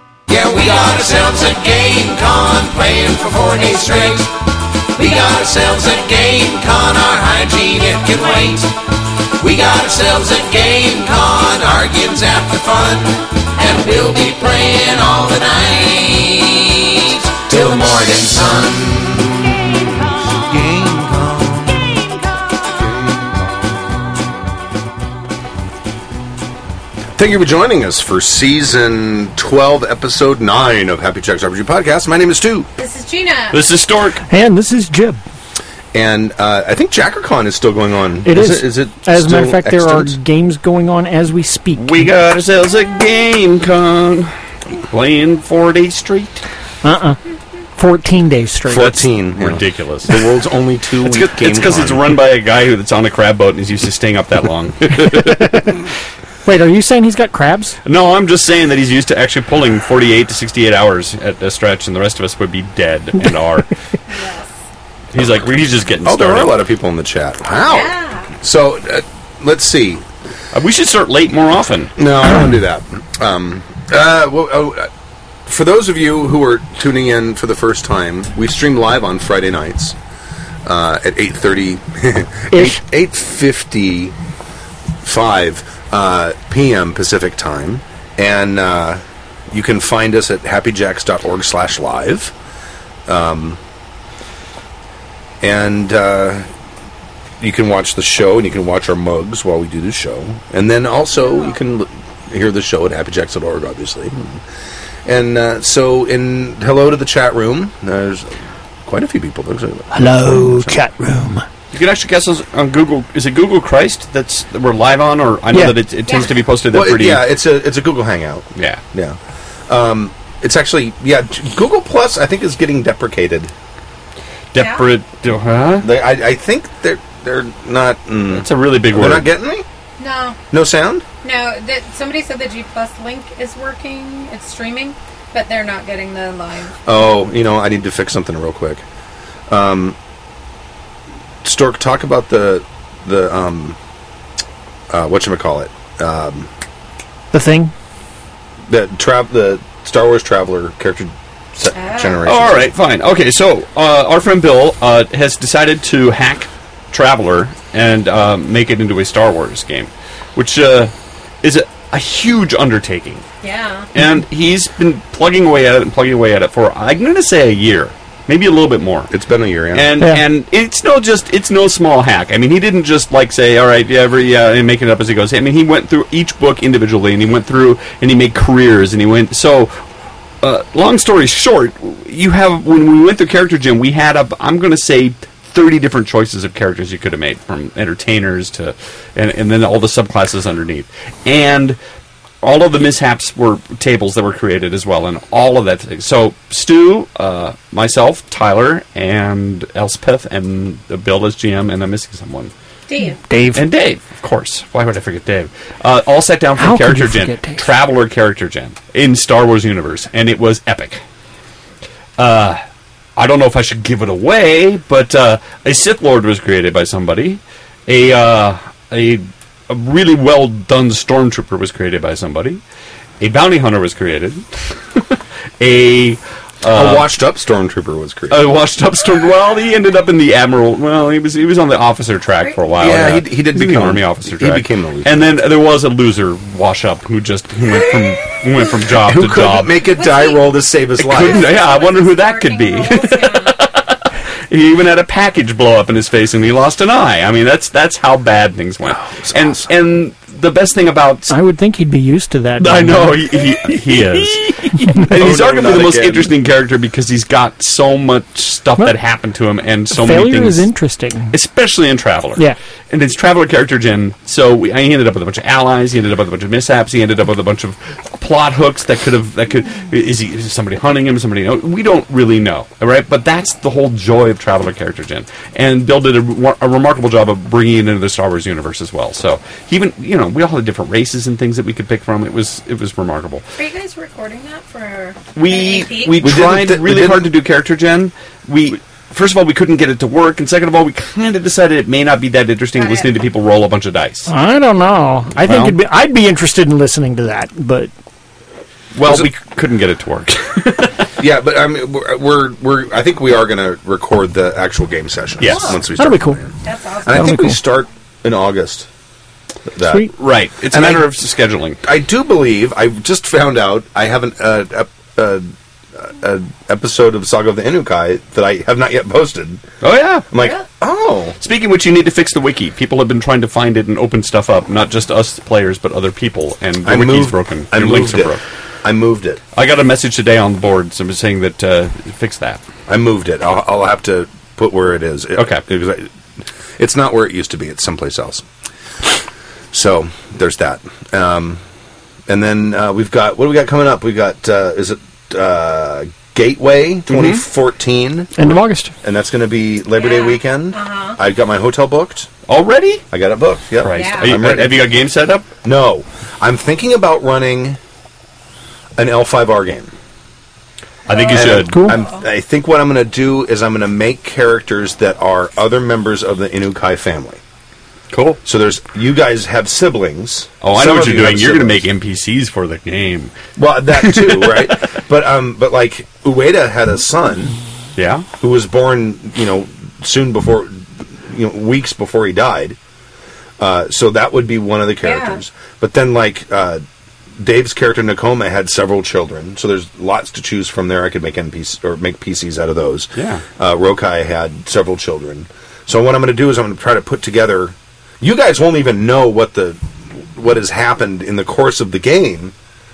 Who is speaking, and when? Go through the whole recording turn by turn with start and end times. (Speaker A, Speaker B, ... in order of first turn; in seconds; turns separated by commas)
Speaker A: 0.3-4.3, Speaker A: 5.0-8.7, Speaker A: 9.4-19.6, Speaker B: 20.3-22.1, Speaker B: 27.1-32.7, Speaker C: 32.8-33.6, Speaker D: 33.5-34.2, Speaker E: 34.3-35.2, Speaker B: 35.9-40.1, Speaker E: 38.2-42.0, Speaker D: 41.8-44.3, Speaker D: 44.9-46.4, Speaker E: 46.8-47.2, Speaker E: 47.8-49.0, Speaker B: 48.6-52.1, Speaker D: 48.7-50.2, Speaker D: 51.0-55.7, Speaker E: 55.0-55.7, Speaker E: 56.4-57.8, Speaker D: 57.8-63.7, Speaker C: 64.1-64.5, Speaker D: 65.1-66.6, Speaker B: 66.0-70.0, Speaker C: 67.7-68.3, Speaker D: 70.5-71.9, Speaker B: 72.0-74.9, Speaker B: 75.5-80.0, Speaker B: 80.6-84.1, Speaker E: 82.5-82.8, Speaker B: 85.0-92.3, Speaker B: 93.1-93.6, Speaker B: 95.4-96.5, Speaker B: 97.4-104.4, Speaker B: 105.0-110.8, Speaker E: 109.9-111.4, Speaker D: 111.7-117.2, Speaker E: 115.5-115.8, Speaker B: 116.7-119.2, Speaker D: 118.5-118.8, Speaker B: 119.7-123.5, Speaker D: 124.5-125.9, Speaker C: 124.5-124.9, Speaker B: 125.8-129.7, Speaker D: 128.3-129.3, Speaker C: 130.0-130.4, Speaker B: 130.5-131.0, Speaker C: 131.2-136.8, Speaker B: 136.8-138.8, Speaker B: 139.5-139.9, Speaker B: 141.4-143.8, Speaker B: 144.9-146.5, Speaker E: 147.3-147.7, Speaker B: 148.7-152.7, Speaker C: 151.7-152.2, Speaker D: 152.2-163.2, Speaker C: 163.4-163.9, Speaker D: 163.9-169.1, Speaker B: 169.1-169.9, Speaker D: 169.7-179.7, Speaker E: 170.0-170.2, Speaker D: 180.4-191.8, Speaker D: 192.4-202.5, Speaker C: 202.9-203.2, Speaker E: 203.3-203.6, Speaker D: 203.5-211.0, Speaker E: 206.6-207.6, Speaker D: 212.2-212.6, Speaker D: 213.2-222.6, Speaker D: 223.2-227.1, Speaker B: 226.7-228.5, Speaker D: 228.3-239.7, Speaker B: 232.8-235.3, Speaker B: 239.0-241.5, Speaker C: 239.9-240.4, Speaker D: 241.0-251.3, Speaker C: 241.2-243.6, Speaker B: 248.8-249.7, Speaker E: 251.3-253.5, Speaker D: 252.6-260.6, Speaker B: 255.1-256.3, Speaker E: 259.9-261.3, Speaker D: 261.3-283.4, Speaker C: 283.6-286.2, Speaker D: 285.3-294.3, Speaker B: 286.1-287.3, Speaker C: 292.8-293.1, Speaker E: 294.3-297.9, Speaker D: 295.4-295.8, Speaker D: 298.9-301.1, Speaker B: 299.0-299.3, Speaker B: 301.2-308.9, Speaker D: 305.4-305.8, Speaker C: 305.4-305.8, Speaker E: 306.0-306.4, Speaker C: 306.6-307.4, Speaker E: 307.1-307.6, Speaker B: 309.7-310.1, Speaker E: 309.8-310.1, Speaker D: 310.2-311.8, Speaker B: 310.7-311.1, Speaker B: 311.8-319.6, Speaker D: 319.8-320.3, Speaker B: 320.3-321.4, Speaker C: 320.4-320.6, Speaker D: 321.4-328.4, Speaker B: 326.8-329.4, Speaker D: 329.5-332.6, Speaker B: 332.9-336.1, Speaker D: 335.4-335.6, Speaker B: 336.8-338.4, Speaker B: 339.7-341.6, Speaker B: 342.3-348.5, Speaker D: 347.1-347.4, Speaker E: 348.4-348.9, Speaker B: 349.0-352.3, Speaker C: 350.0-351.2, Speaker D: 352.5-353.0, Speaker B: 353.1-354.9, Speaker D: 353.8-355.5, Speaker C: 353.9-354.4, Speaker B: 355.6-357.8, Speaker B: 359.0-359.9, Speaker D: 361.1-361.9, Speaker C: 361.1-362.2, Speaker B: 361.3-367.4, Speaker E: 361.6-362.0, Speaker D: 368.1-368.4, Speaker B: 368.4-371.9, Speaker D: 370.6-373.3, Speaker B: 373.6-377.6, Speaker D: 373.9-374.9, Speaker D: 377.9-378.2, Speaker B: 378.4-382.8, Speaker B: 383.6-386.8, Speaker C: 385.0-385.4, Speaker B: 387.4-399.8, Speaker D: 393.1-393.4, Speaker B: 400.3-402.5